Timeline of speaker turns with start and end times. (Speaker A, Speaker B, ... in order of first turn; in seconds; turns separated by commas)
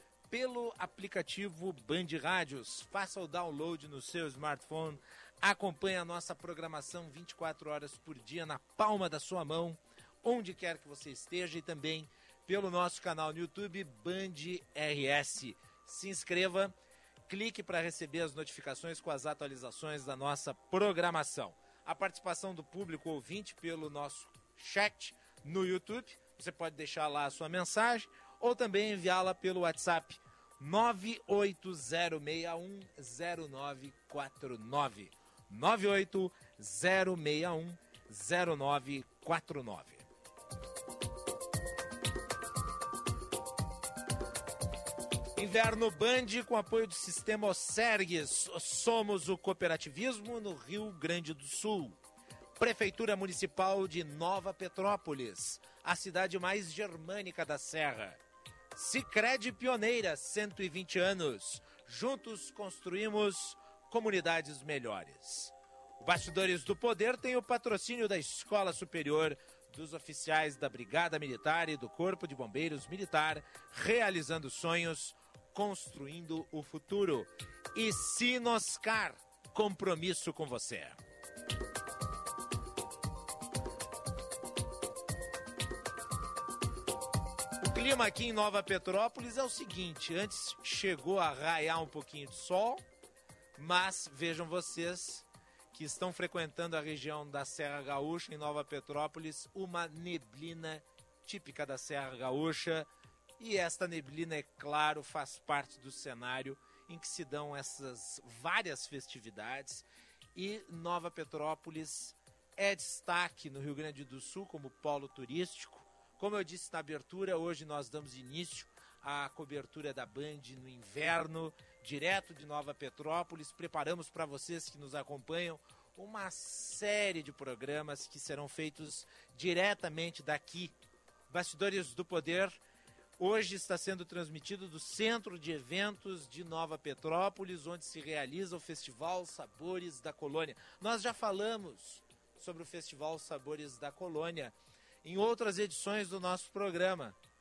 Speaker A: 0.3-16.7, Speaker A: 17.3-40.0, Speaker A: 45.4-52.0, Speaker A: 52.6-58.2, Speaker A: 58.7-81.0, Speaker A: 87.6-92.8, Speaker A: 93.6-102.9, Speaker A: 103.4-130.7, Speaker A: 131.3-132.6, Speaker A: 133.2-147.2